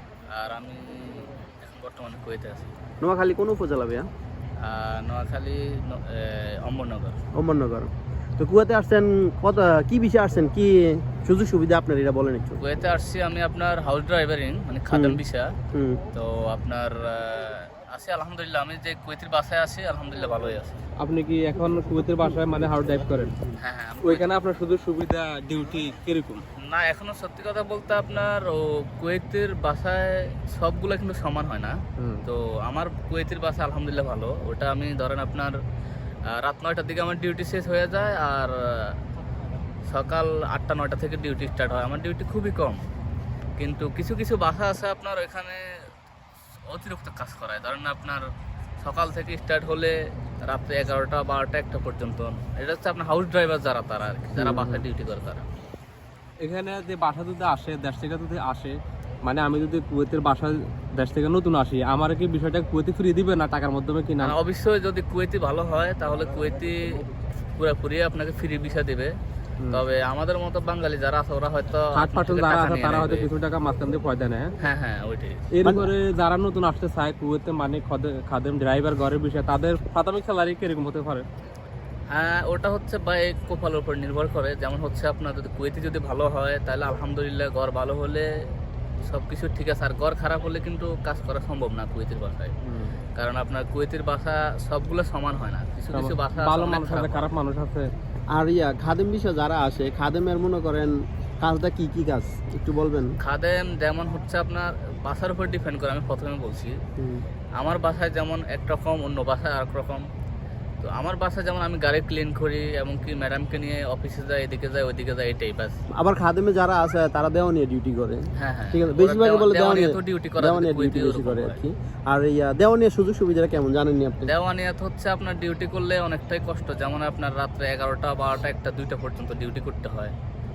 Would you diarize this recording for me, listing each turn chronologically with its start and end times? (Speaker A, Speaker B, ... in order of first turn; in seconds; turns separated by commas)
Speaker A: 0.3-2.7, Speaker B: 3.0-4.1, Speaker A: 4.6-7.2, Speaker B: 7.3-12.6, Speaker A: 12.6-15.5, Speaker B: 14.9-15.2, Speaker B: 15.7-16.0, Speaker A: 16.1-20.8, Speaker C: 21.0-23.4, Speaker A: 23.6-24.3, Speaker C: 24.0-26.4, Speaker A: 26.6-35.5, Speaker C: 32.0-32.2, Speaker A: 36.3-39.0, Speaker A: 39.9-42.8, Speaker A: 43.6-45.7, Speaker A: 46.7-48.2, Speaker A: 48.8-55.5, Speaker C: 54.4-54.8, Speaker C: 56.4-64.3, Speaker A: 64.2-67.0, Speaker A: 67.6-69.1, Speaker A: 69.7-73.3, Speaker C: 71.9-74.5, Speaker A: 74.6-75.5, Speaker C: 75.5-81.2, Speaker A: 82.1-88.3, Speaker A: 89.0-92.5, Speaker C: 92.7-93.0, Speaker A: 93.2-97.3, Speaker C: 95.9-97.9, Speaker B: 98.3-103.1, Speaker A: 103.2-106.8, Speaker A: 107.6-110.0, Speaker A: 110.8-115.8, Speaker B: 115.9-124.3, Speaker A: 118.4-121.6, Speaker A: 124.2-130.1